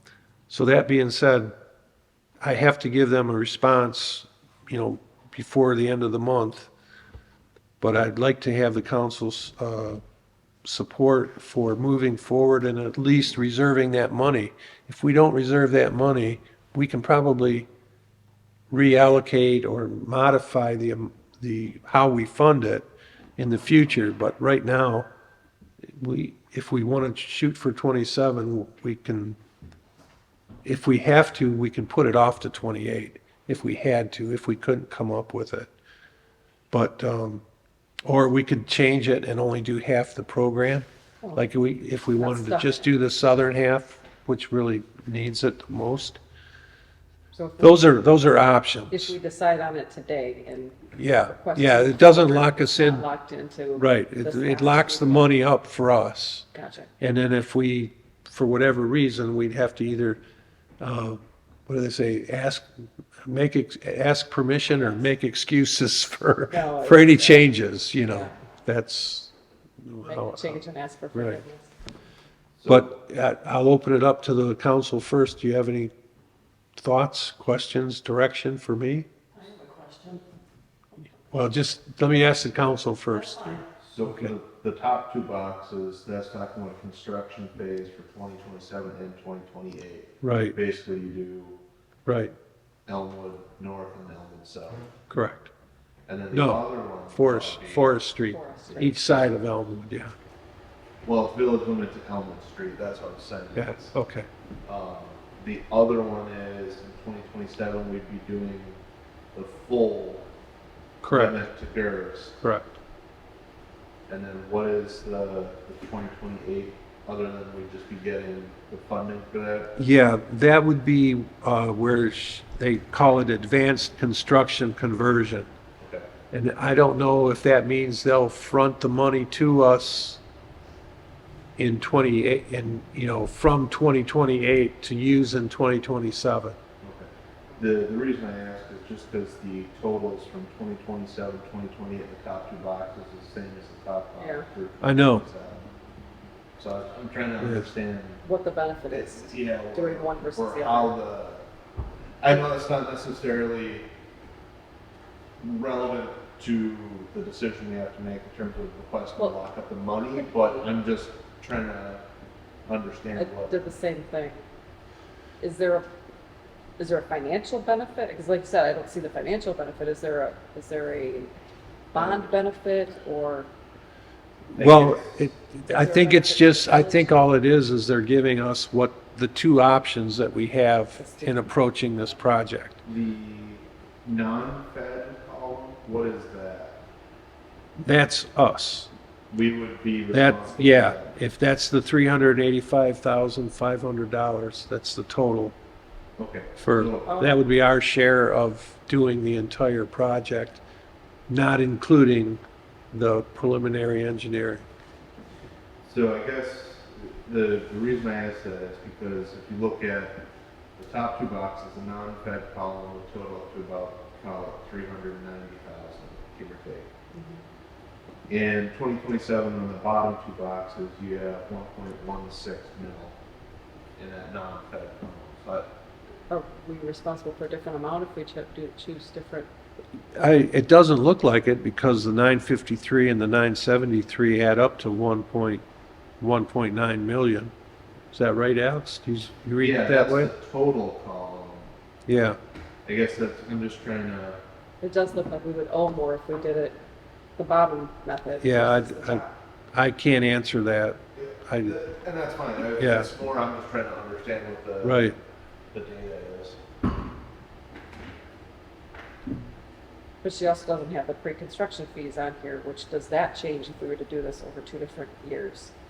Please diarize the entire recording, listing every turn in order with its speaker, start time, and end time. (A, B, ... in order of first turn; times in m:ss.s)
0:00.5-0:01.5 A
0:02.4-0:06.7 A
0:07.8-0:10.0 A
0:10.6-0:17.7 A
0:18.7-0:22.9 A
0:23.4-0:25.1 A
0:25.9-0:29.4 A
0:30.6-0:35.7 A
0:36.7-0:37.4 A
0:38.0-0:46.2 A
0:42.2-0:42.9 B
0:47.3-0:48.0 B
0:47.6-0:49.2 A
0:48.9-0:55.3 B
0:51.0-0:53.1 A
0:53.8-0:56.5 A
0:56.5-0:56.9 B
0:57.0-1:00.2 A
1:00.8-1:02.7 A
1:03.2-1:09.3 A
1:06.5-1:08.3 B
1:09.8-1:10.6 A
1:10.0-1:11.7 B
1:11.1-1:11.4 A
1:12.6-1:12.9 C
1:12.7-1:15.9 A
1:16.8-1:19.1 A
1:19.4-1:20.2 B
1:21.3-1:24.3 A
1:23.1-1:23.7 B
1:23.8-1:31.6 C
1:30.2-1:30.6 A
1:32.1-1:32.3 A
1:32.9-1:34.8 C
1:35.1-1:35.5 A
1:36.1-1:38.0 C
1:36.3-1:40.1 A
1:38.3-1:39.2 B
1:41.0-1:43.9 C
1:43.6-1:44.3 A
1:44.7-1:48.8 C
1:49.3-1:50.3 C
1:51.0-1:51.4 A
1:51.1-1:52.4 C
1:54.1-1:59.8 C
1:59.8-2:05.5 A
2:05.8-2:06.1 C
2:06.3-2:10.2 A
2:11.6-2:16.6 A
2:16.8-2:25.7 C
2:24.2-2:24.4 B
2:24.8-2:25.2 A
2:26.6-2:28.2 C
2:27.4-2:27.7 A
2:28.2-2:31.0 B
2:28.9-2:31.4 C
2:32.2-2:33.9 C
2:35.4-2:42.0 C
2:40.1-2:40.7 B
2:42.7-2:43.6 C
2:43.2-2:44.4 B
2:45.4-2:45.9 B
2:46.8-2:51.3 B
2:51.9-2:53.5 B
2:51.9-2:52.3 C
2:54.5-3:02.8 A
2:54.6-2:55.3 C
2:55.7-2:57.2 B
3:01.0-3:02.1 B
3:02.8-3:06.8 C
3:07.8-3:08.9 A
3:09.3-3:11.1 C
3:10.1-3:15.6 A
3:16.2-3:17.1 C
3:16.6-3:20.6 A
3:17.1-3:17.4 B
3:21.3-3:22.4 A
3:22.9-3:24.6 A
3:25.8-3:30.2 C
3:30.8-3:36.9 C
3:37.1-3:37.4 B
3:38.3-3:43.2 C
3:44.0-3:45.7 C
3:46.3-3:49.5 B
3:50.2-3:55.6 A
3:56.2-3:57.5 A
3:58.1-4:00.3 A
3:59.6-4:01.7 C
4:02.1-4:02.4 A
4:02.8-4:04.4 C
4:04.8-4:06.8 B
4:07.4-4:09.3 B
4:08.4-4:11.8 A
4:11.2-4:15.1 C
4:12.8-4:13.1 A
4:14.8-4:15.2 A
4:15.7-4:16.6 C
4:20.2-4:25.7 B